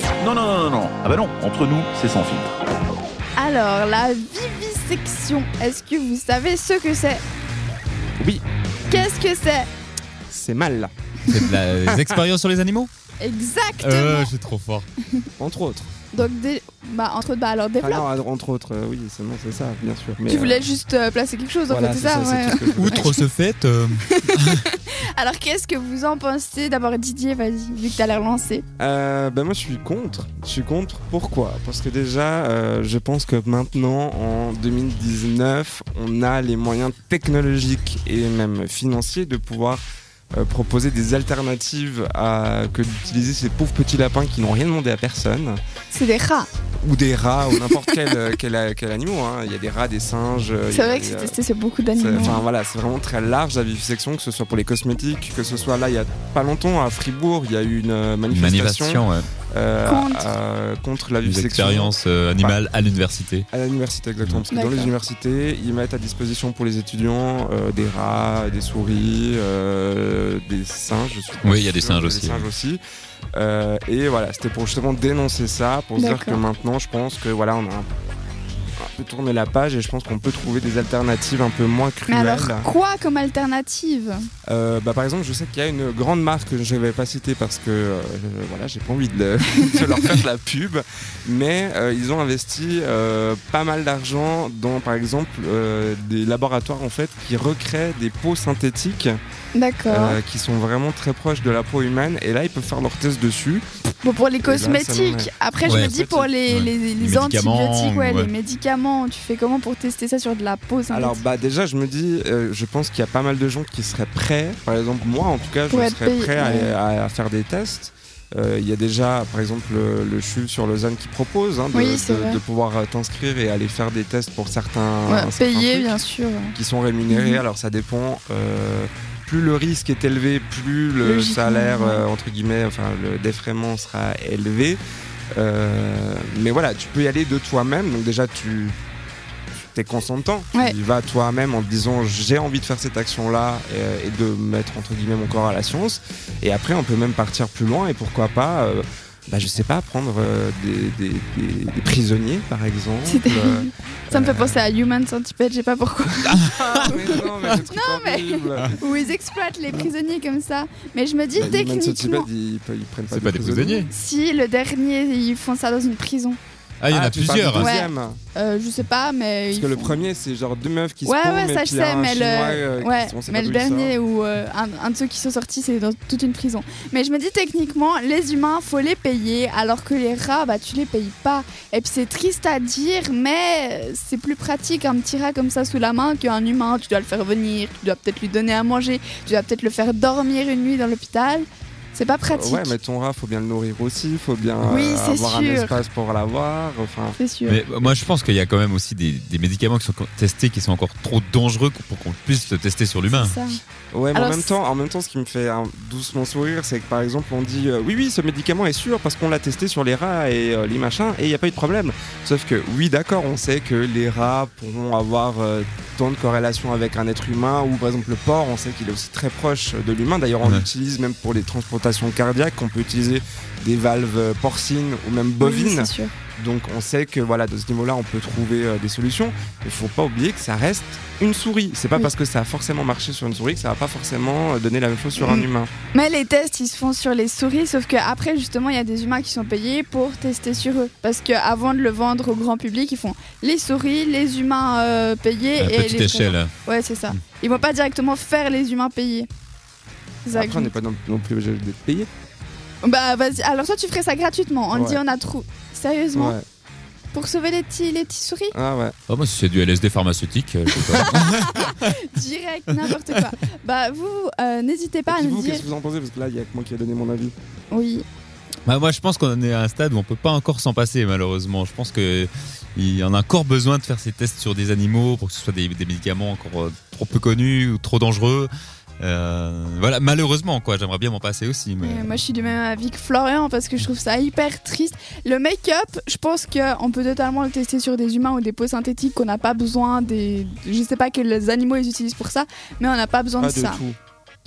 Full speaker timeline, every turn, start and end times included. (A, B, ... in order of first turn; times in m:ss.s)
0:00.2-0:02.5 A
0:03.4-0:07.2 B
0:08.2-0:09.1 C
0:08.9-0:09.7 B
0:10.3-0:10.9 C
0:11.3-0:12.9 D
0:11.9-0:12.2 C
0:13.2-0:14.3 B
0:13.8-0:14.9 D
0:15.4-0:15.9 C
0:16.1-0:18.0 B
0:17.8-0:20.7 C
0:20.3-0:23.1 B
0:21.7-0:23.2 C
0:22.8-0:24.6 D
0:24.0-0:28.6 B
0:28.8-0:39.8 C
0:40.3-0:45.6 C
0:45.9-0:46.5 B
0:46.8-0:51.4 C
0:50.7-0:52.4 B
0:52.0-1:02.6 C
0:58.3-0:59.3 D
0:59.8-1:00.3 B
1:01.2-1:03.5 D
1:03.5-1:12.8 C
1:04.5-1:04.9 B
1:11.4-1:12.5 D
1:13.3-1:17.9 C
1:16.0-1:16.4 B
1:18.8-1:22.7 C
1:22.1-1:24.2 B
1:24.5-1:39.2 C
1:29.5-1:29.8 B
1:39.5-1:40.2 B
1:39.9-1:43.7 C
1:44.0-1:51.2 B
1:44.4-1:46.3 C
1:45.6-1:45.9 D
1:46.5-1:48.3 D
1:50.9-2:06.0 C
1:55.7-1:56.7 B
2:01.7-2:02.4 B
2:05.1-2:06.5 B
2:06.5-2:14.8 C
2:07.1-2:07.4 B
2:11.0-2:12.0 B
2:15.3-2:18.8 C
2:19.5-2:34.6 C
2:33.0-2:42.3 B
2:36.3-2:37.6 D
2:36.4-2:38.8 C
2:41.3-2:43.9 C
2:43.1-2:43.9 D
2:43.9-2:46.4 B
2:46.8-2:47.7 D
2:46.9-2:48.2 C
2:47.5-2:50.0 B
2:49.5-2:53.9 C
2:51.0-3:12.7 B
3:12.3-3:17.2 C
3:14.6-3:15.8 B
3:17.2-3:17.6 B
3:17.5-3:23.3 D
3:23.1-3:23.6 B
3:23.9-3:55.7 C
3:24.1-3:24.5 B
3:45.4-3:46.1 B
3:55.2-4:09.3 B
4:05.6-4:06.5 D
4:10.2-4:10.7 B
4:10.3-4:12.1 C
4:12.8-4:16.4 B
4:14.7-4:15.0 C
4:16.1-4:16.4 C
4:17.1-4:18.5 B
4:18.5-4:19.0 C
4:19.1-4:21.9 D
4:20.7-4:25.6 B
4:25.1-4:27.3 C
4:27.7-4:28.0 B
4:28.7-4:38.5 D
4:39.0-4:42.2 D
4:41.8-4:53.8 B
4:53.4-4:54.0 C